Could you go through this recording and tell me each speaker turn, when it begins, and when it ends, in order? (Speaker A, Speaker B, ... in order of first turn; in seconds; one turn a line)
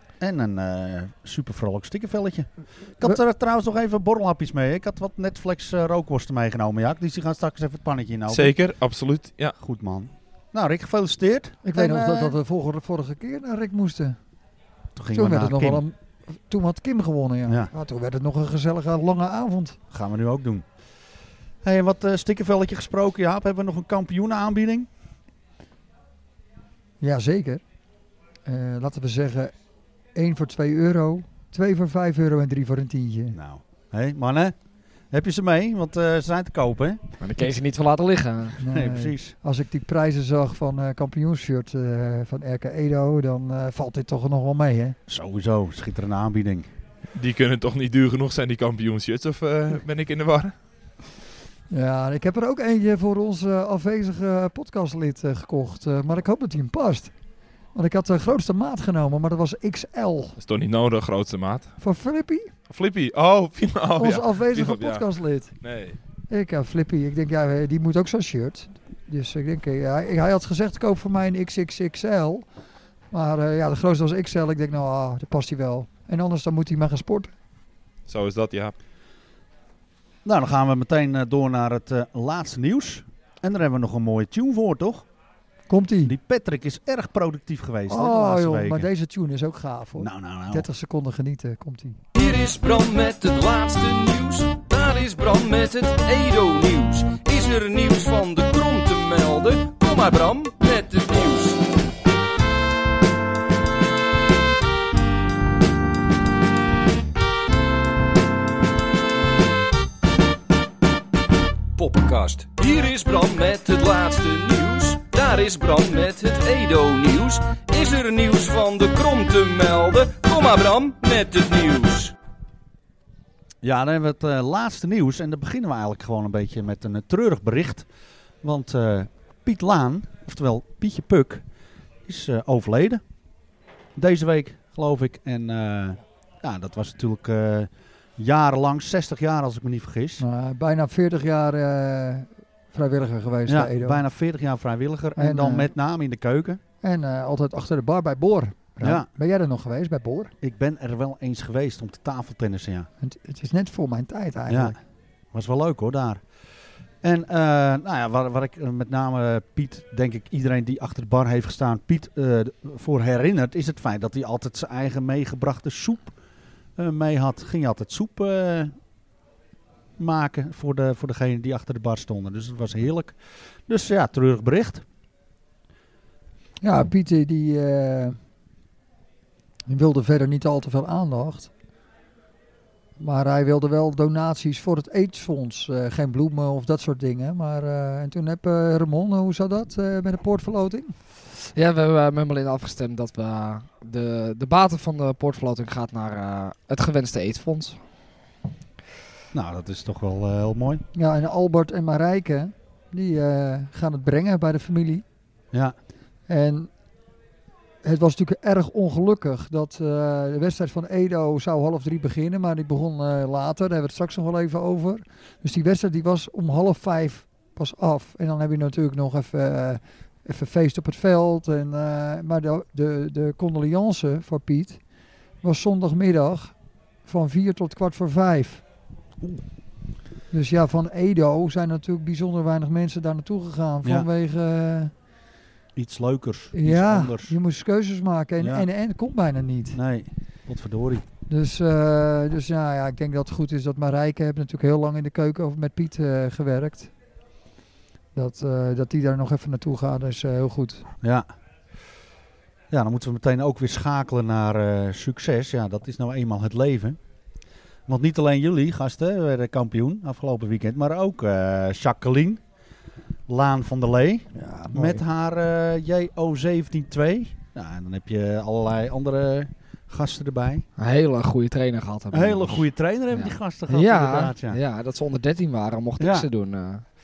Speaker A: 0.2-8.6
Speaker B: 8.3-9.6
Speaker A: 9.6-12.4
Speaker C: 11.6-14.2
Speaker A: 15.0-15.8
Speaker C: 15.1-19.8
Speaker A: 19.9-20.6
Speaker A: 21.6-24.9
Speaker C: 27.0-27.6
Speaker C: 28.4-29.5
Speaker C: 30.1-33.4
Speaker A: 33.3-34.6
Speaker A: 35.1-37.0
Speaker D: 37.2-38.6
Speaker C: 38.6-45.0
Speaker A: 38.7-39.4
Speaker A: 45.1-46.7
Speaker B: 47.1-50.5
Speaker C: 51.7-57.1
Speaker C: 57.7-60.4
Speaker B: 60.4-61.7
Speaker C: 61.8-62.5
Speaker B: 62.7-65.0
Speaker C: 64.0-65.6
Speaker B: 65.6-66.0
Speaker C: 66.3-72.5
Speaker C: 73.1-77.3
Speaker B: 78.1-78.7
Speaker A: 80.2-85.1
Speaker C: 85.7-86.1
Speaker A: 86.0-88.9
Speaker C: 87.9-92.0
Speaker A: 90.0-90.7
Speaker E: 92.2-101.6
Speaker E: 111.8-122.1
Speaker A: 123.6-127.9
Speaker A: 128.4-131.4
Speaker A: 132.1-133.0
Speaker A: 134.0-140.2
Speaker C: 140.2-144.0
Speaker A: 143.5-146.6
Speaker C: 145.2-145.7
Speaker C: 146.8-150.3
Speaker A: 148.8-149.1
Speaker A: 150.4-152.9
Speaker C: 153.0-154.8
Speaker A: 154.5-154.8
Speaker A: 155.3-156.2
Speaker A: 157.0-166.2
Speaker A: 166.8-168.7
Speaker A: 170.0-174.8
Speaker C: 176.6-178.2
Speaker C: 179.7-181.5
Speaker C: 183.0-190.9
Speaker D: 191.5-197.8
Speaker A: 199.3-200.8
Speaker C: 200.9-205.1
Speaker C: 206.3-206.7
Speaker C: 207.8-224.8
Speaker C: 225.4-228.6
Speaker C: 230.3-234.9
Speaker A: 235.8-237.3
Speaker C: 236.5-239.8
Speaker A: 238.4-238.7
Speaker A: 239.7-241.0
Speaker C: 241.3-246.9
Speaker C: 248.2-250.9
Speaker A: 251.0-251.3
Speaker A: 252.7-257.0
Speaker A: 257.9-262.4
Speaker A: 263.3-270.7
Speaker C: 264.4-265.0
Speaker D: 270.8-276.8
Speaker A: 272.1-274.6
Speaker A: 276.0-276.3